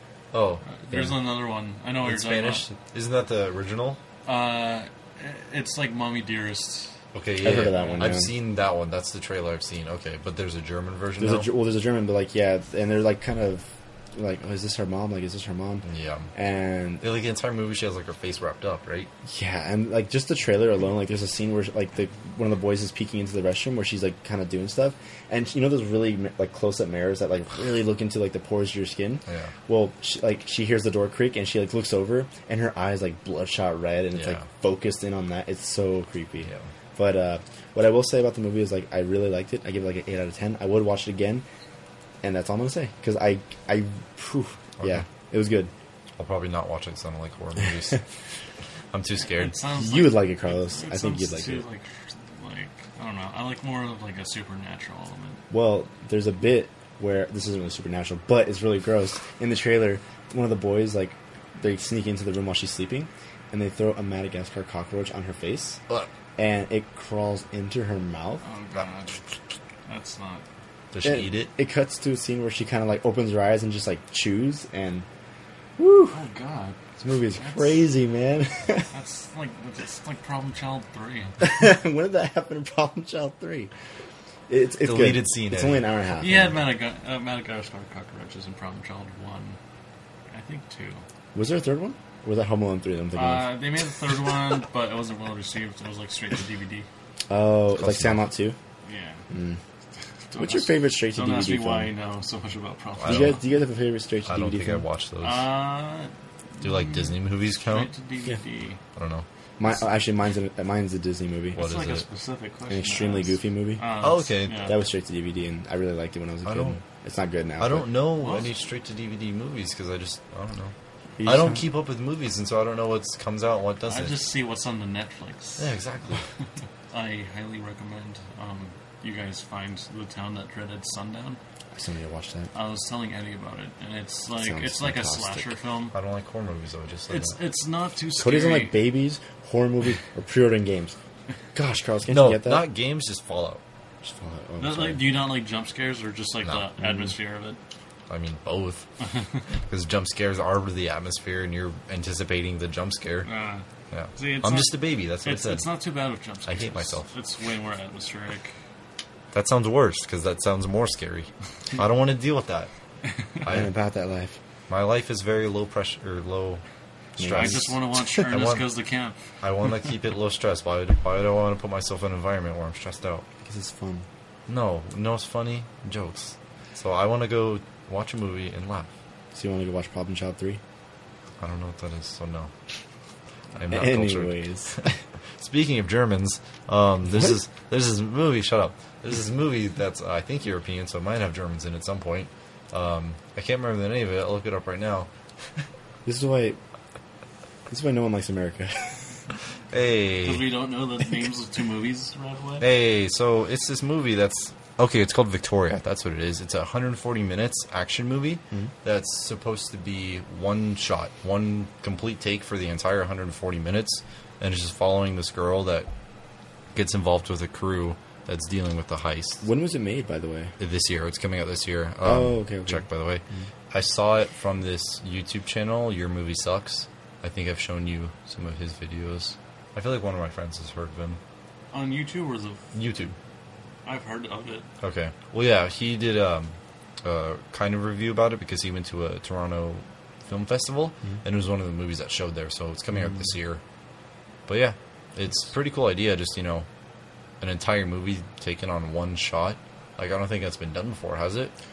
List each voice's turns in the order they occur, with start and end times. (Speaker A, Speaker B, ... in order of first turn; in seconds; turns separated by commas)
Speaker A: 0.3-0.6, Speaker B: 0.6-2.6, Speaker A: 2.0-4.0, Speaker B: 4.2-6.9, Speaker A: 7.1-11.5, Speaker C: 7.4-8.3, Speaker B: 7.7-8.1, Speaker C: 11.2-17.0, Speaker A: 15.8-16.3, Speaker A: 17.0-19.1, Speaker C: 19.2-41.4, Speaker A: 29.3-29.5, Speaker A: 34.1-34.5, Speaker C: 42.2-45.7, Speaker A: 44.8-45.0, Speaker A: 46.2-48.0, Speaker A: 48.9-49.6, Speaker B: 49.2-55.4, Speaker C: 49.7-51.6, Speaker C: 55.5-65.8, Speaker C: 66.4-68.4, Speaker B: 68.4-69.2, Speaker B: 69.8-70.4, Speaker A: 70.9-71.5, Speaker C: 71.0-75.0, Speaker C: 75.8-76.2, Speaker B: 76.1-76.8, Speaker C: 77.0-78.9, Speaker B: 77.4-77.8, Speaker B: 78.9-81.4, Speaker C: 81.4-83.7, Speaker C: 84.5-86.5, Speaker A: 84.8-85.8, Speaker B: 86.2-89.6, Speaker B: 90.3-91.0, Speaker C: 91.3-93.5, Speaker B: 93.1-96.9, Speaker C: 97.3-98.6, Speaker A: 97.7-98.2, Speaker B: 98.8-99.2, Speaker C: 99.3-99.6, Speaker B: 100.3-103.4, Speaker C: 100.4-101.9, Speaker A: 103.0-103.4, Speaker C: 103.0-104.8, Speaker A: 104.2-105.5, Speaker B: 105.2-108.8, Speaker A: 106.6-107.9, Speaker A: 109.0-109.2, Speaker C: 109.6-111.6, Speaker A: 111.5-112.0, Speaker B: 111.5-114.8, Speaker C: 112.7-113.8, Speaker A: 114.0-114.7, Speaker C: 114.6-117.9, Speaker A: 116.4-116.8, Speaker A: 117.6-120.7, Speaker B: 118.2-118.5, Speaker C: 121.2-121.7, Speaker A: 121.2-124.2, Speaker B: 123.8-125.7, Speaker A: 125.6-126.2, Speaker B: 126.9-131.4, Speaker C: 131.7-132.5, Speaker B: 132.5-135.9, Speaker C: 134.4-135.5, Speaker A: 135.9-137.4, Speaker B: 137.1-138.8, Speaker C: 138.2-140.9, Speaker C: 141.5-142.7, Speaker A: 142.1-143.6, Speaker C: 144.0-145.0, Speaker B: 144.6-147.6, Speaker C: 146.8-147.1, Speaker A: 148.1-148.8, Speaker B: 149.0-149.4, Speaker A: 149.7-153.3, Speaker B: 153.2-158.5, Speaker A: 153.9-155.7, Speaker A: 156.4-157.1, Speaker A: 159.3-162.7, Speaker A: 163.4-163.7, Speaker C: 163.4-164.4, Speaker A: 164.7-166.6, Speaker A: 167.2-168.7, Speaker C: 167.2-167.7, Speaker B: 167.3-169.2, Speaker A: 169.4-173.2, Speaker C: 173.4-174.1, Speaker A: 174.5-178.9, Speaker C: 179.3-180.6, Speaker A: 181.4-182.5, Speaker A: 183.6-195.1, Speaker C: 183.7-185.0, Speaker C: 187.1-187.4, Speaker C: 196.0-196.6, Speaker C: 197.7-199.1, Speaker A: 199.7-200.5, Speaker B: 200.2-202.7, Speaker A: 202.6-215.9, Speaker A: 216.7-219.4, Speaker C: 219.4-220.5, Speaker A: 220.6-231.2, Speaker C: 222.0-223.4, Speaker B: 231.7-232.6, Speaker A: 232.7-233.1, Speaker B: 233.8-234.7, Speaker A: 234.8-243.6, Speaker A: 244.5-246.7, Speaker A: 247.4-251.5